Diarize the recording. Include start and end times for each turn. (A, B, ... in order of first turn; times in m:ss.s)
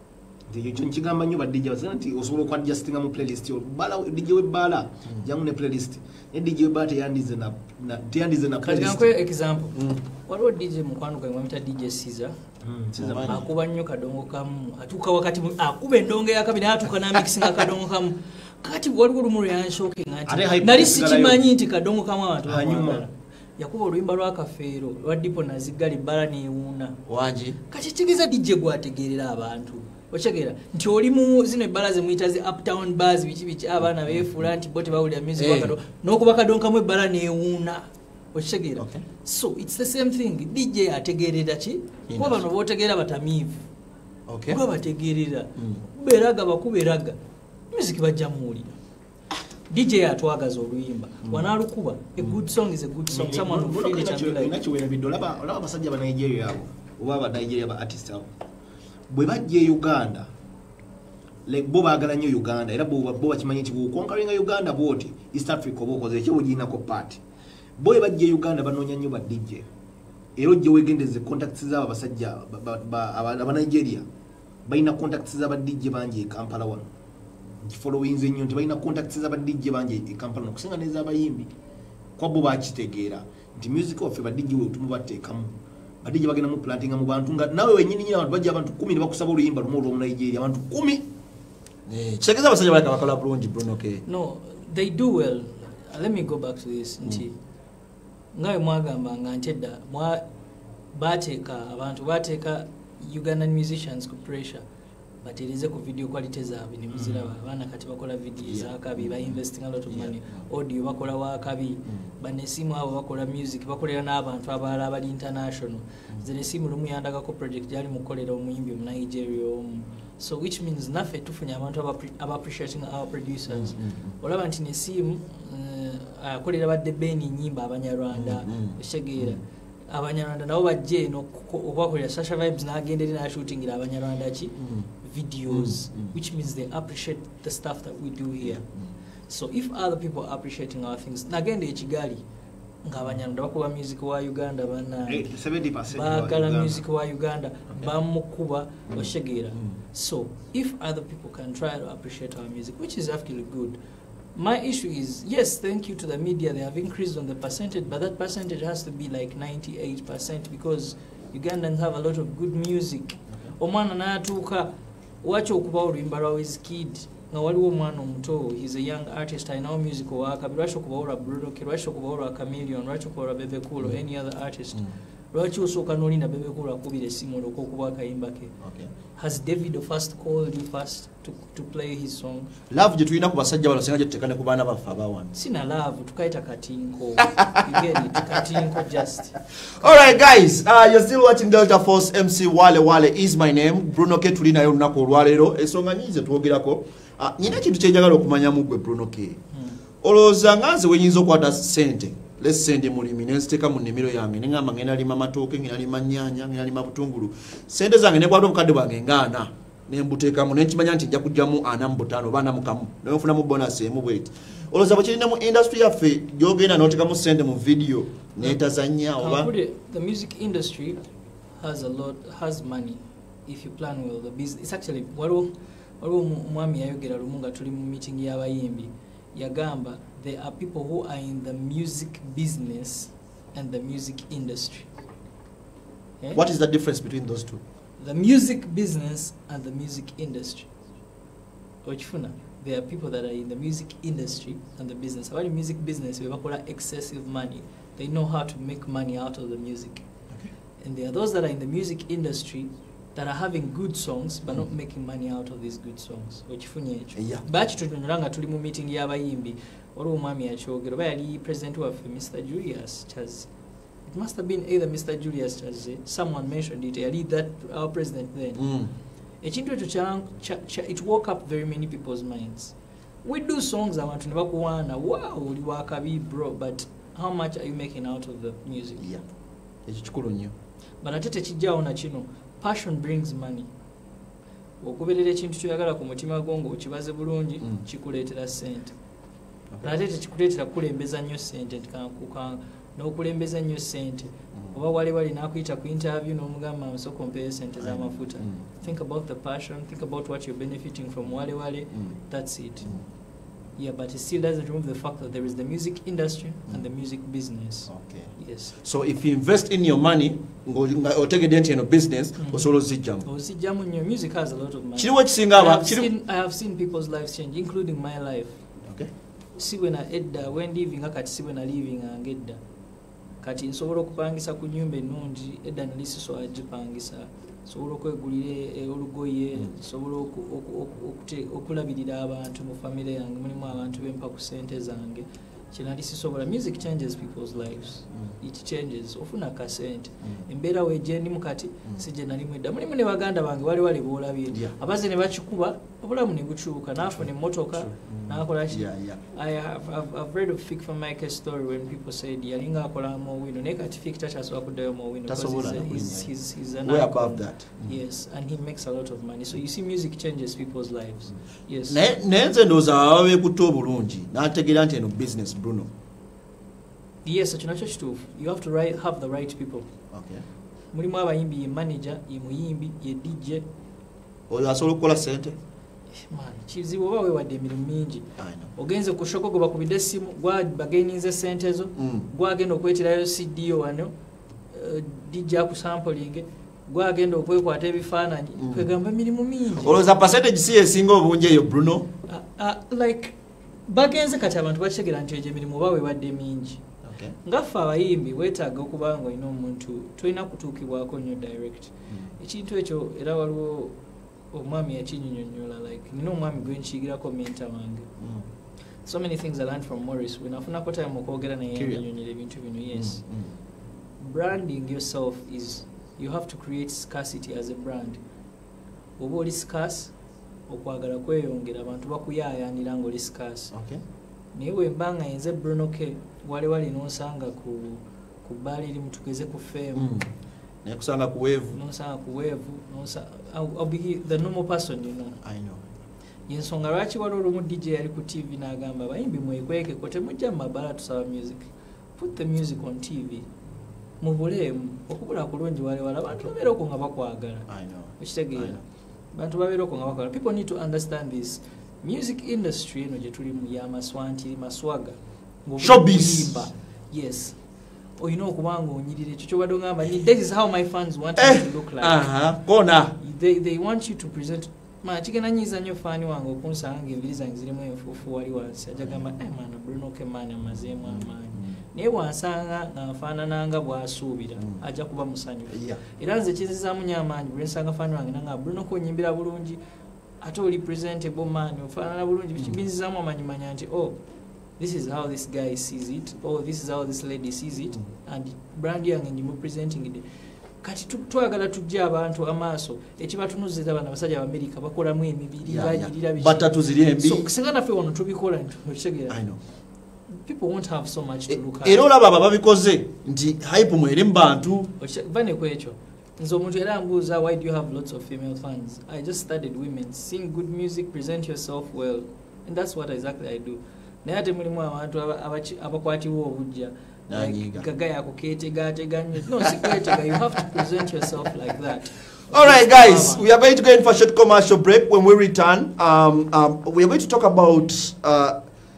0:00.5-0:09.1 A
0:08.6-0:12.4 B
0:09.7-0:10.0 C
0:12.6-0:13.4 A
0:12.9-0:13.5 C
0:13.1-0:27.0 B
0:20.3-0:21.4 A
0:22.4-0:23.0 A
0:27.1-0:27.6 C
0:27.7-0:43.6 B
0:35.4-0:35.8 C
0:38.8-0:39.0 C
0:42.1-0:42.4 C
0:44.3-0:44.6 C
0:44.5-0:47.2 B
0:47.7-0:48.8 B
0:49.7-0:54.6 B
0:53.1-0:58.3 A
0:59.1-1:00.3 A
1:01.4-1:07.2 A
1:07.8-1:09.6 A
1:10.4-1:14.0 A
1:14.6-1:16.8 A
1:17.6-1:21.5 A
1:22.2-1:25.5 A
1:26.0-1:31.0 A
1:31.9-1:34.0 C
1:34.0-1:37.3 B
1:38.3-1:40.2 B
1:40.9-1:44.6 B
1:45.2-2:18.6 B
1:46.9-1:47.3 A
1:48.5-1:49.4 C
1:49.9-1:50.4 C
2:03.5-2:04.2 C
2:08.1-2:09.4 C
2:14.6-2:14.9 C
2:15.5-2:16.1 C
2:18.4-2:18.9 C
2:19.3-2:22.2 B
2:22.8-2:25.3 B
2:25.1-2:26.8 A
2:25.9-2:33.8 B
2:28.9-2:29.8 C
2:34.3-2:58.5 B
2:58.6-2:58.9 C
2:59.2-3:02.5 B
3:02.7-3:05.3 C
3:05.3-3:10.1 B
3:08.3-3:08.8 C
3:09.6-3:19.4 C
3:20.0-3:39.5 C
3:39.2-3:41.0 B
3:41.6-3:54.9 B
3:56.3-3:57.6 C
3:58.0-4:00.7 B
4:01.8-4:10.0 B
4:10.8-4:23.5 B
4:17.2-4:17.4 C
4:24.1-4:28.7 B
4:28.6-4:28.9 C
4:29.4-4:39.0 B
4:39.8-4:40.5 C
4:41.0-4:43.7 B
4:44.8-4:49.0 B
4:49.8-5:03.0 B
4:57.8-4:58.7 C
5:03.8-5:08.7 B
5:07.9-5:13.2 C
5:12.4-5:12.7 B
5:13.2-5:18.5 B
5:15.0-5:16.1 C
5:19.5-5:22.6 B
5:23.4-6:02.0 B
5:47.7-5:49.2 C
5:55.3-5:56.3 C
5:56.8-5:58.0 C
6:01.9-6:05.9 C
6:07.2-6:09.9 B
6:10.1-6:10.4 C
6:10.9-6:13.6 B
6:14.5-6:15.6 C
6:16.1-6:24.1 B
6:18.4-6:18.7 C
6:22.0-6:22.3 C
6:24.7-6:30.0 B
6:28.6-6:28.9 C
6:29.8-6:32.1 C
6:32.2-6:36.8 B
6:37.0-6:37.4 C
6:37.4-6:44.0 B
6:42.1-6:42.3 C
6:44.5-6:48.1 B
6:48.2-6:48.4 C
6:49.0-6:53.2 B
6:51.7-6:52.0 C
6:52.9-6:53.5 C
6:54.2-6:58.2 B
6:59.2-7:00.1 B
7:00.7-7:03.7 B
7:03.7-7:04.0 C
7:04.5-7:10.1 B
7:09.9-7:10.3 C
7:10.8-7:11.8 C
7:11.7-7:15.4 B
7:15.4-7:15.8 C
7:16.5-7:23.5 B
7:24.2-7:27.6 B
7:27.7-7:28.8 C
7:28.2-7:28.8 B
7:29.3-7:37.6 B
7:35.8-7:36.5 C
7:38.2-7:42.2 B
7:41.4-7:43.2 C
7:43.2-7:59.8 B
7:49.0-7:49.3 C
7:51.0-7:51.8 C
7:55.7-7:56.0 C
8:00.4-8:04.2 B
8:04.8-8:10.2 B
8:10.8-8:19.4 B
8:15.6-8:17.5 C
8:19.3-8:19.6 C
8:20.3-8:22.0 B
8:21.8-8:24.9 C
8:25.0-8:43.5 B
8:37.3-8:37.8 C
8:42.5-8:48.6 C